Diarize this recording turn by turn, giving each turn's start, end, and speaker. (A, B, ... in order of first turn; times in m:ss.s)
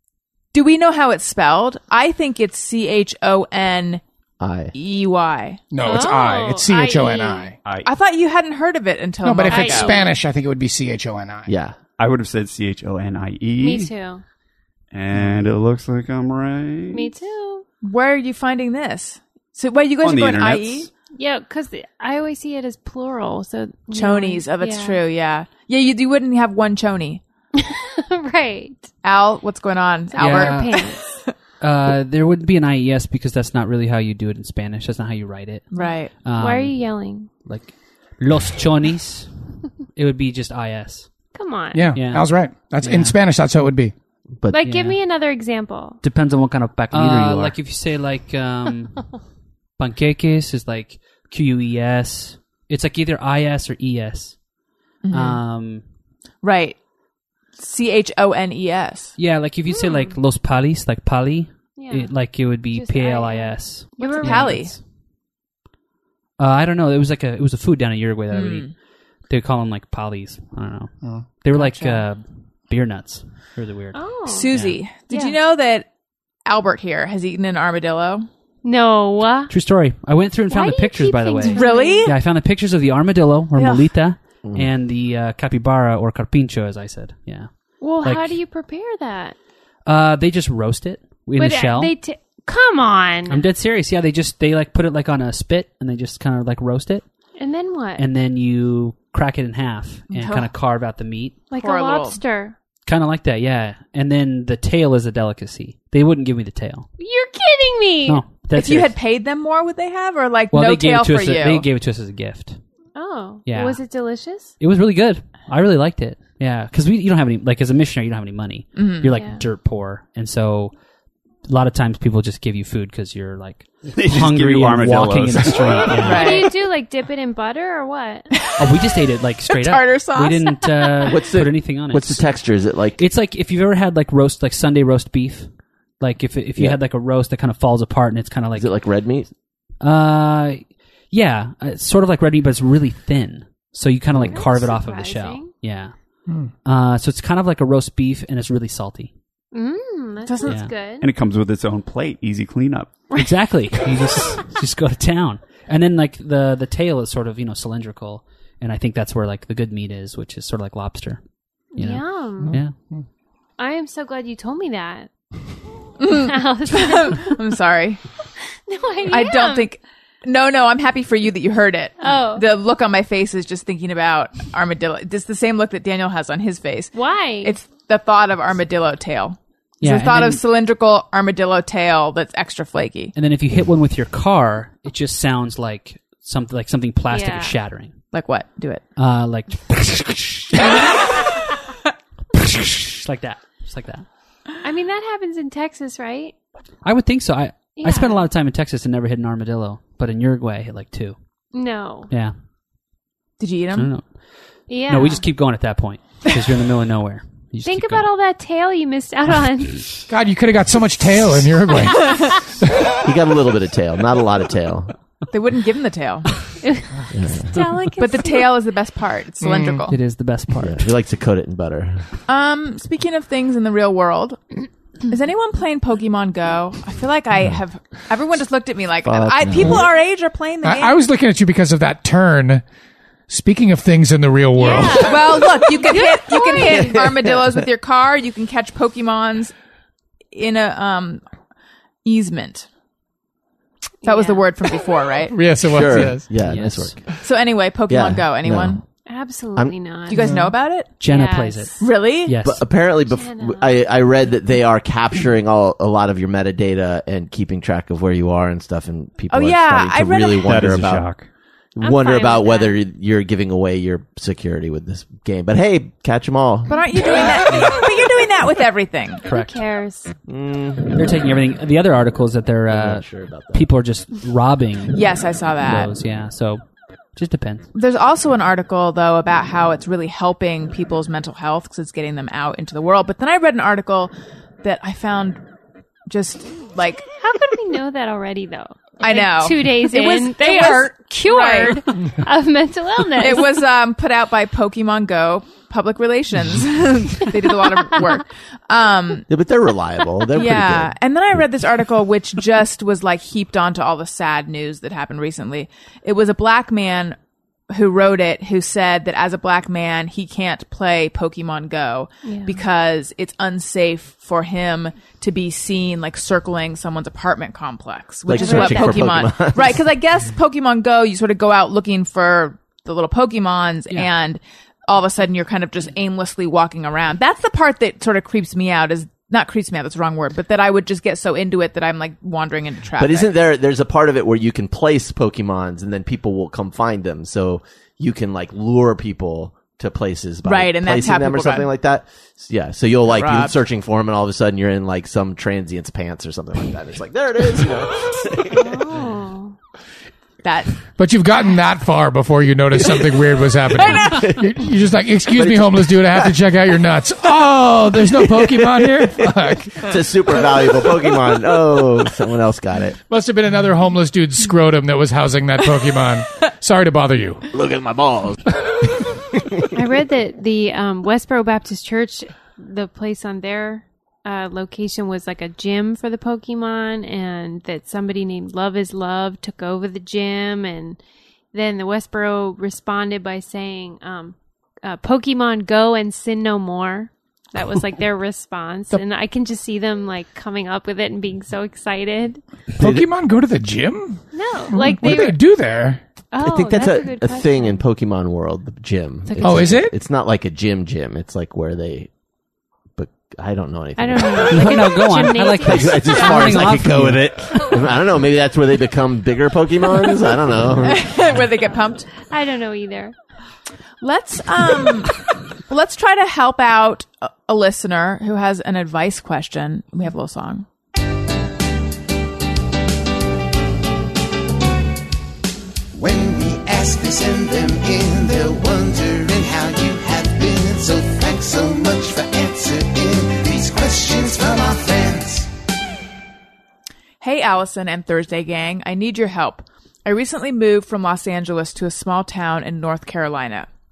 0:00.5-0:04.0 A
0:04.4-0:04.7 B
0:04.7-0:05.6 A
0:05.7-0:07.6 C
0:05.8-0:07.5 D
0:07.6-0:07.9 E
0:07.8-0:10.0 A
0:09.2-0:11.5 C
0:09.5-0:10.1 D
0:11.5-0:11.8 B
0:12.0-0:13.9 E
0:13.6-0:14.2 D
0:14.9-0:17.1 E
0:16.9-0:17.7 D
0:17.8-0:20.9 A
0:20.0-0:20.9 E
0:21.2-0:25.0 D
0:23.9-0:27.2 A
0:27.6-0:28.9 D
0:29.0-0:31.3 A
0:30.1-0:31.0 D
0:30.2-0:30.8 F
0:31.6-0:36.9 F
0:35.7-0:36.1 A
0:35.8-0:37.3 D
0:37.4-0:39.3 F
0:40.0-0:41.1 F
0:41.3-0:41.9 D
0:41.7-0:43.9 C
0:41.9-0:43.2 F
0:44.5-0:46.0 D
0:44.6-0:45.0 F
0:46.0-0:49.2 F
0:47.2-0:47.5 E
0:49.8-0:54.4 F
0:55.0-0:55.4 A
0:55.1-0:55.8 F
0:56.4-0:56.8 A
0:57.6-0:59.2 A
0:59.2-1:04.8 F
0:59.7-1:00.2 D
1:01.8-1:02.1 D
1:02.7-1:04.6 D
1:04.0-1:04.8 A
1:06.4-1:08.7 F
1:08.3-1:08.7 A
1:09.3-1:14.8 F
1:11.0-1:11.3 C
1:11.5-1:12.0 A
1:13.9-1:14.5 D
1:14.3-1:15.9 A
1:15.1-1:15.4 D
1:16.5-1:18.3 A
1:18.6-1:19.5 D
1:19.5-1:27.5 F
1:20.5-1:22.1 D
1:21.4-1:22.1 A
1:23.6-1:23.9 A
1:24.4-1:24.7 B
1:27.8-1:29.4 D
1:28.0-1:28.4 F
1:29.9-1:31.9 F
1:31.4-1:33.5 D
1:33.3-1:37.0 F
1:37.4-1:38.1 D
1:38.0-1:41.4 F
1:40.1-1:40.5 A
1:41.5-1:42.6 D
1:41.6-1:42.2 A
1:42.8-1:46.9 F
1:47.0-1:48.2 D
1:48.1-1:48.9 F
1:48.5-1:51.7 A
1:50.5-1:52.6 F
1:53.0-1:54.5 D
1:53.5-1:53.8 F
1:54.6-2:00.7 F
1:58.8-1:59.1 A
1:59.1-1:59.4 D
2:01.5-2:06.5 F
2:03.9-2:06.2 E
2:06.0-2:06.5 A
2:06.1-2:08.3 D
2:08.4-2:08.8 A
2:08.6-2:12.2 F
2:09.5-2:10.9 A
2:11.1-2:13.0 B
2:13.0-2:18.7 F
2:18.6-2:19.3 B
2:19.8-2:25.9 F
2:24.3-2:25.5 D
2:26.3-2:26.5 C
2:26.6-2:29.1 F
2:29.5-2:31.1 D
2:30.3-2:30.6 A
2:30.5-2:30.7 F
2:31.0-2:33.1 E
2:33.1-2:41.2 F
2:41.7-2:42.6 D
2:41.8-2:42.8 F
2:43.6-2:45.1 D
2:46.0-2:47.4 D
2:46.0-2:48.0 A
2:48.7-2:49.7 D
2:49.1-3:03.1 A
2:52.0-2:52.5 D
2:56.9-2:57.6 D
2:59.8-3:00.4 F
3:03.2-3:08.0 F
3:07.1-3:07.6 D
3:08.1-3:08.8 A
3:09.0-3:11.4 F
3:12.3-3:14.1 F
3:14.6-3:16.3 D
3:16.8-3:21.2 F
3:17.8-3:18.2 D
3:21.5-3:22.1 D
3:23.4-3:23.9 A
3:23.8-3:24.0 F
3:24.7-3:25.2 D
3:24.9-3:28.1 F
3:27.6-3:30.0 D
3:30.1-3:32.4 C
3:33.0-3:34.9 B
3:35.3-3:36.3 A
3:36.6-3:38.6 D
3:37.1-3:37.6 B
3:38.0-3:40.0 A
3:39.9-3:40.9 F
3:40.6-3:42.0 B
3:42.3-3:44.5 A
3:45.1-3:51.0 A
3:49.0-3:49.9 B
3:50.6-3:52.6 C
3:53.3-3:55.5 C
3:54.6-3:57.0 D
3:55.0-3:59.5 A
3:56.7-3:57.4 B
4:00.3-4:01.2 A
4:02.0-4:02.7 A
4:04.0-4:04.5 D
4:04.0-4:05.4 A
4:05.3-4:06.3 C
4:05.6-4:07.0 B
4:06.4-4:07.0 F
4:07.2-4:08.8 A
4:07.9-4:08.8 B
4:09.1-4:10.2 D
4:10.1-4:10.9 A
4:10.1-4:10.5 C
4:11.0-4:12.6 F
4:11.0-4:11.8 D
4:11.8-4:12.3 A
4:12.4-4:21.1 B
4:13.1-4:13.8 D
4:19.3-4:20.5 A
4:20.4-4:21.3 E
4:21.8-4:27.1 B
4:21.8-4:22.8 D
4:26.7-4:29.2 A
4:29.2-4:30.1 D
4:29.3-4:29.6 F
4:30.3-4:31.0 B
4:30.9-4:35.1 F
4:32.7-4:33.7 B
4:34.9-4:35.9 A
4:35.6-4:36.6 F
4:37.1-4:37.7 F
4:37.7-4:45.4 A
4:46.1-4:47.0 A
4:47.2-4:53.6 D
4:49.0-4:51.8 A
4:53.2-4:59.3 A
4:59.3-5:01.4 B
5:00.3-5:07.2 A
5:07.7-5:33.3 A
5:12.2-5:12.6 D
5:18.3-5:19.8 B
5:18.4-5:19.1 D
5:33.0-5:48.8 B
5:40.4-5:41.7 A
5:43.1-5:43.6 A
5:48.5-5:49.6 D
5:50.4-5:50.8 A
5:51.0-5:59.9 C
5:53.8-5:54.1 A
5:53.9-5:54.5 B
5:55.3-5:56.3 B
5:58.5-6:03.0 B
6:03.1-6:07.5 C
6:07.5-6:08.5 B
6:09.7-6:21.0 D
6:21.5-6:32.4 D
6:32.8-6:33.1 B
6:32.8-6:36.0 C
6:34.3-6:35.4 D
6:36.3-6:37.8 D
6:36.4-6:42.1 B
6:39.3-6:39.6 D
6:39.4-6:40.0 C
6:43.0-6:45.0 B
6:44.0-6:46.5 D
6:44.5-6:47.3 F
6:45.6-6:51.1 B
6:50.8-6:52.1 A
6:52.2-6:53.1 D
6:54.0-7:00.7 A
7:05.9-7:15.5 G
7:17.2-7:23.7 A